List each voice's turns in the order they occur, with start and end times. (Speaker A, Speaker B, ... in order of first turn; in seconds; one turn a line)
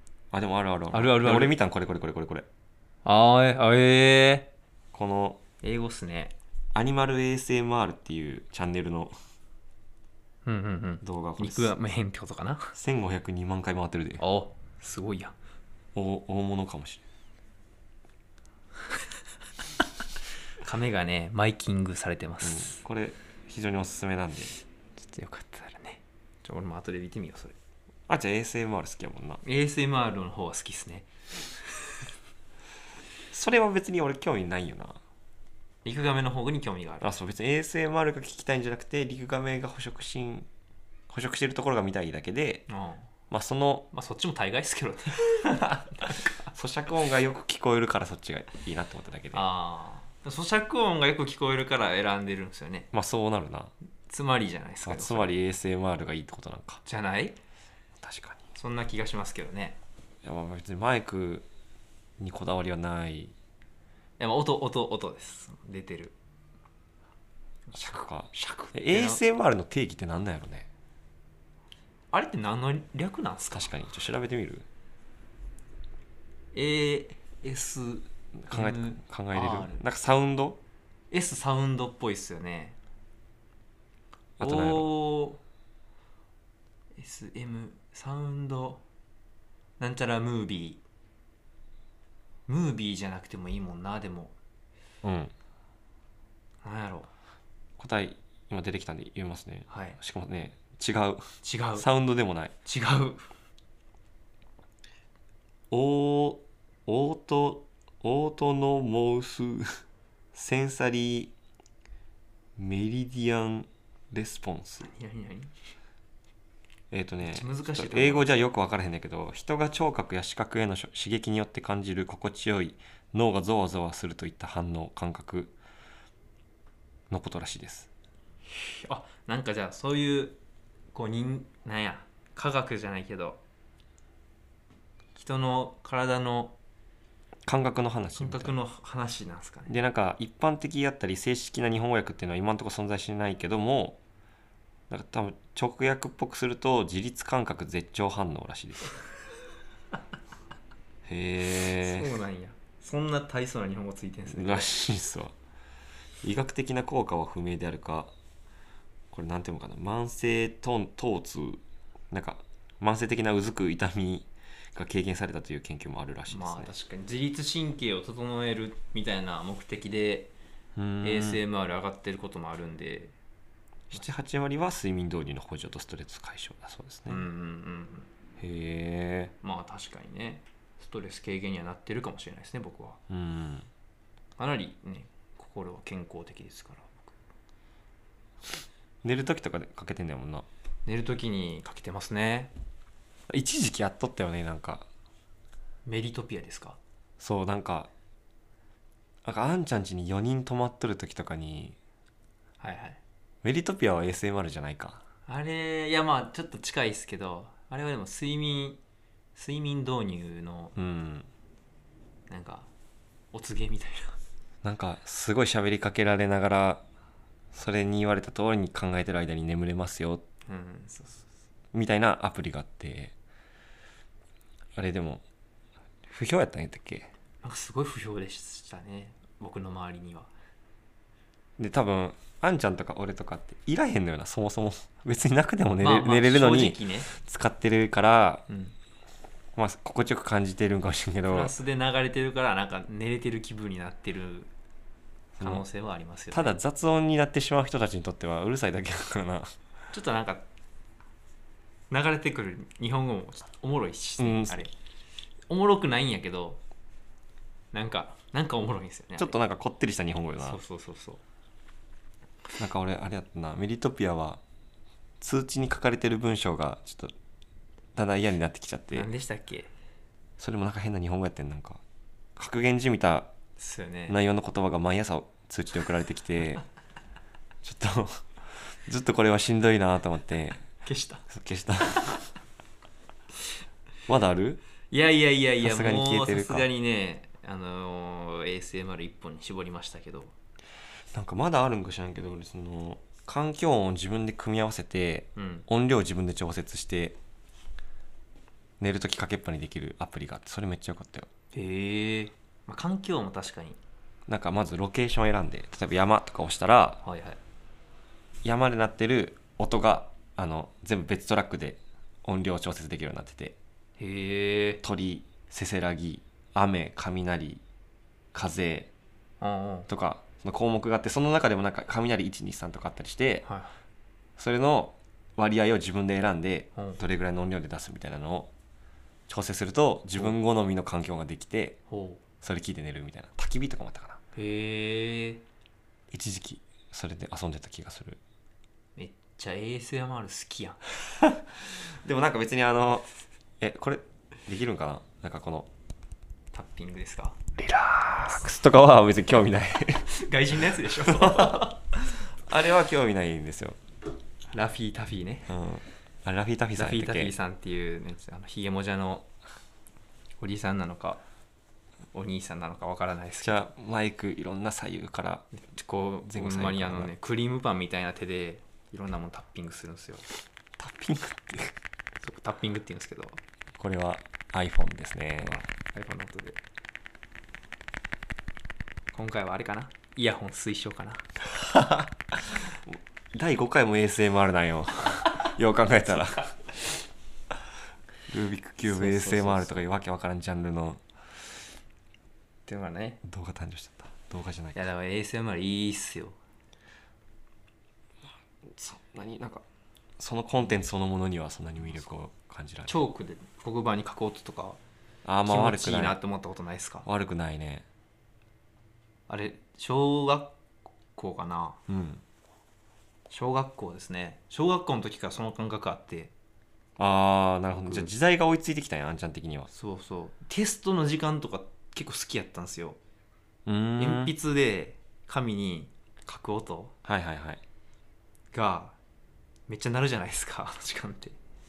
Speaker A: 0.3-2.5
Speaker B: 0.9-1.6
Speaker B: 3.0-4.5
Speaker A: 4.9-5.4
Speaker B: 5.6-6.3
Speaker A: 6.7-9.1
Speaker B: 10.4-12.7
Speaker A: 11.0-11.8
Speaker A: 12.7-14.2
Speaker B: 14.2-15.3
Speaker A: 15.9-17.0
Speaker B: 20.6-22.8
Speaker A: 22.4-24.6
Speaker B: 25.0-27.6
Speaker A: 28.1-29.4
Speaker B: 29.4-31.1
Speaker A: 33.3-35.0
Speaker B: 35.8-37.1
Speaker A: 37.0-40.5
Speaker A: 41.1-42.6
Speaker B: 42.7-43.1
Speaker A: 43.3-43.9
Speaker B: 43.9-46.5
Speaker A: 46.5-49.5
Speaker B: 49.3-52.9
Speaker A: 52.9-53.7
Speaker B: 54.1-55.3
Speaker A: 54.8-56.8
Speaker B: 56.9-57.4
Speaker A: 58.0-58.5
Speaker B: 58.5-59.8
Speaker A: 60.2-61.5
Speaker A: 62.2-63.3
Speaker B: 64.2-66.1
Speaker A: 67.7-70.7
Speaker B: 68.4-69.2
Speaker B: 72.1-73.7
Speaker A: 73.5-74.7
Speaker B: 76.5-79.8
Speaker A: 78.3-80.6
Speaker B: 81.1-82.8
Speaker A: 84.4-84.9
Speaker B: 84.4-85.4
Speaker B: 87.0-88.8
Speaker B: 89.8-90.8
Speaker B: 92.5-94.3
Speaker A: 95.0-95.3
Speaker B: 96.6-97.1
Speaker A: 97.8-101.2
Speaker B: 99.7-100.0
Speaker B: 101.4-101.9
Speaker A: 101.8-102.5
Speaker B: 102.6-103.3
Speaker A: 105.7-109.8
Speaker A: 110.3-111.3
Speaker A: 112.6-114.9
Speaker B: 114.8-115.5
Speaker A: 116.9-125.5
Speaker B: 117.2-118.3
Speaker A: 127.1-127.9
Speaker B: 128.6-130.4
Speaker B: 130.9-133.4
Speaker B: 135.2-136.6
Speaker A: 137.4-138.5
Speaker B: 138.2-139.7
Speaker A: 139.7-144.0
Speaker A: 144.9-149.0
Speaker A: 151.0-152.1
Speaker B: 151.8-154.7
Speaker A: 154.3-155.3
Speaker A: 156.2-158.1
Speaker A: 159.1-166.7
Speaker B: 166.3-170.3
Speaker A: 170.8-171.4
Speaker B: 171.0-173.1
Speaker A: 173.9-177.3
Speaker B: 177.1-178.1
Speaker A: 178.4-179.3
Speaker B: 179.4-183.0
Speaker A: 183.1-183.7
Speaker B: 184.4-187.1
Speaker A: 189.0-190.5
Speaker B: 190.8-192.5
Speaker A: 193.3-194.9
Speaker B: 195.8-196.8
Speaker A: 197.2-197.9
Speaker A: 199.2-201.8
Speaker B: 202.6-203.0
Speaker A: 203.4-205.0
Speaker B: 205.3-208.8
Speaker B: 209.3-210.8
Speaker A: 210.8-211.3
Speaker B: 212.3-212.7
Speaker B: 213.3-214.2
Speaker A: 214.6-216.8
Speaker A: 217.5-220.2
Speaker B: 220.5-221.2
Speaker A: 221.7-223.1
Speaker A: 224.8-225.2
Speaker A: 226.0-227.1
Speaker B: 227.4-230.3
Speaker A: 231.6-238.4
Speaker B: 235.8-237.1
Speaker B: 238.5-238.7
Speaker A: 239.6-241.5
Speaker B: 241.3-244.5
Speaker A: 245.3-245.6
Speaker B: 245.4-246.6
Speaker A: 246.3-249.5
Speaker B: 249.9-250.4
Speaker B: 251.9-254.7
Speaker A: 254.2-254.6
Speaker B: 255.5-256.6
Speaker B: 257.7-259.3
Speaker A: 259.2-260.6
Speaker B: 260.4-261.2
Speaker A: 262.6-264.4
Speaker A: 265.2-267.1
Speaker A: 267.9-269.1
Speaker B: 268.9-269.7
Speaker A: 270.4-271.8
Speaker A: 272.4-273.3
Speaker B: 273.6-274.2
Speaker A: 274.1-276.6
Speaker A: 277.6-280.6
Speaker B: 280.8-281.2
Speaker A: 281.3-282.3
Speaker A: 284.1-284.6
Speaker B: 284.9-290.3
Speaker A: 285.6-286.7
Speaker A: 291.1-297.2
Speaker B: 295.4-295.6
Speaker A: 298.8-301.3
Speaker B: 301.5-303.8
Speaker A: 304.3-307.0
Speaker B: 307.0-307.4
Speaker A: 308.4-313.6
Speaker B: 314.0-314.8
Speaker A: 314.8-317.6
Speaker A: 318.3-318.9
Speaker B: 319.4-319.9
Speaker A: 319.9-323.4
Speaker B: 323.4-323.7
Speaker A: 324.4-328.5
Speaker B: 326.8-327.0
Speaker A: 329.3-331.8
Speaker B: 331.9-332.2
Speaker A: 332.4-334.2
Speaker B: 334.3-335.4
Speaker A: 336.1-338.2
Speaker B: 339.0-340.8
Speaker A: 341.1-343.1
Speaker A: 343.6-345.7
Speaker B: 346.5-347.4
Speaker A: 347.6-350.2
Speaker B: 350.1-351.8
Speaker A: 351.0-351.8
Speaker A: 352.4-353.8
Speaker B: 354.5-355.5
Speaker A: 355.5-357.3
Speaker B: 356.8-359.3
Speaker B: 360.4-361.2
Speaker B: 362.1-363.7
Speaker A: 363.4-365.5
Speaker B: 365.5-370.3
Speaker A: 366.3-367.1
Speaker A: 370.8-371.7
Speaker B: 372.2-373.4
Speaker A: 373.7-375.6
Speaker B: 375.4-376.6
Speaker B: 379.1-381.2
Speaker A: 381.5-386.9
Speaker A: 388.3-391.0
Speaker B: 388.8-389.8
Speaker B: 392.7-393.2
Speaker A: 393.2-394.9
Speaker B: 394.7-396.4
Speaker A: 398.6-399.6
Speaker A: 400.2-403.0
Speaker B: 402.9-404.8
Speaker A: 405.2-406.2
Speaker B: 405.4-407.1
Speaker A: 407.0-407.9
Speaker B: 409.3-410.6
Speaker B: 411.1-411.8
Speaker A: 411.9-412.2
Speaker B: 413.3-416.3
Speaker A: 417.0-419.7
Speaker B: 417.7-418.1
Speaker B: 419.7-423.0
Speaker A: 423.6-424.3
Speaker B: 424.0-426.9
Speaker A: 427.0-427.6
Speaker B: 428.5-428.9
Speaker B: 429.7-431.4